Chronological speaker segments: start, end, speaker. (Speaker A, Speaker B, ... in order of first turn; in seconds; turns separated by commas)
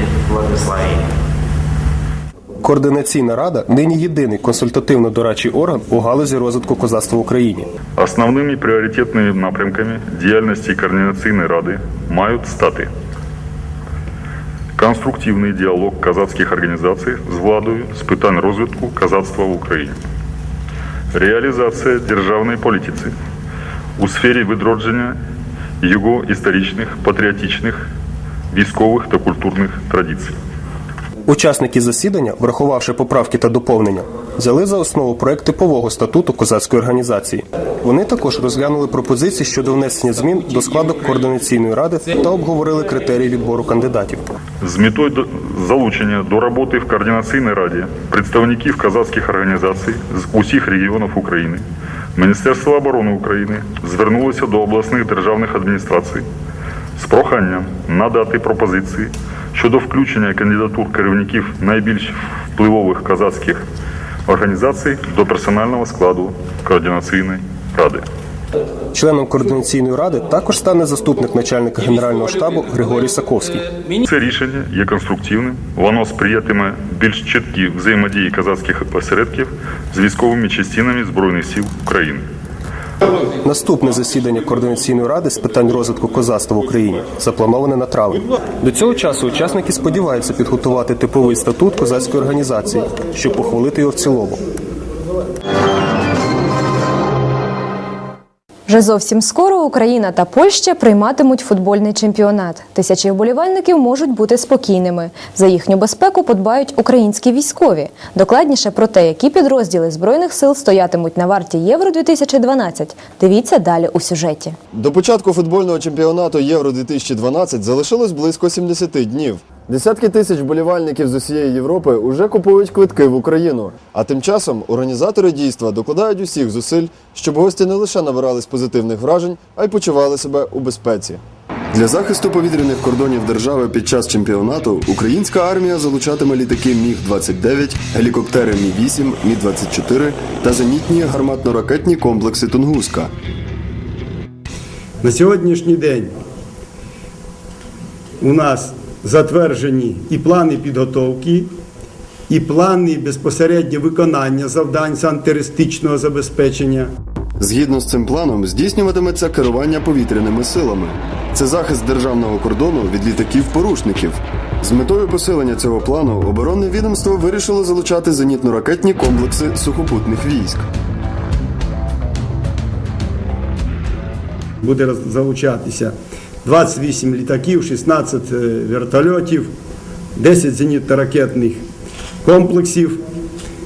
Speaker A: 2.6-7.7, Speaker B: 8.0-12.9, Speaker B: 14.8-20.0, Speaker B: 21.1-23.1, Speaker B: 24.0-25.2, Speaker B: 25.8-27.9, Speaker B: 28.5-30.3, Speaker A: 31.3-44.2, Speaker B: 44.6-51.6, Speaker B: 52.1-56.2, Speaker B: 57.0-63.6, Speaker B: 64.3-68.0, Speaker A: 68.9-73.8, Speaker B: 74.0-82.2, Speaker A: 83.4-94.4, Speaker C: 98.7-114.5, Speaker D: 114.7-143.1, Speaker E: 145.0-146.1, Speaker E: 148.2-151.5, Speaker E: 152.3-156.9, Speaker D: 157.4-170.7, Speaker E: 174.6-179.5, Speaker E: 180.2-181.6, Speaker E: 182.2-183.0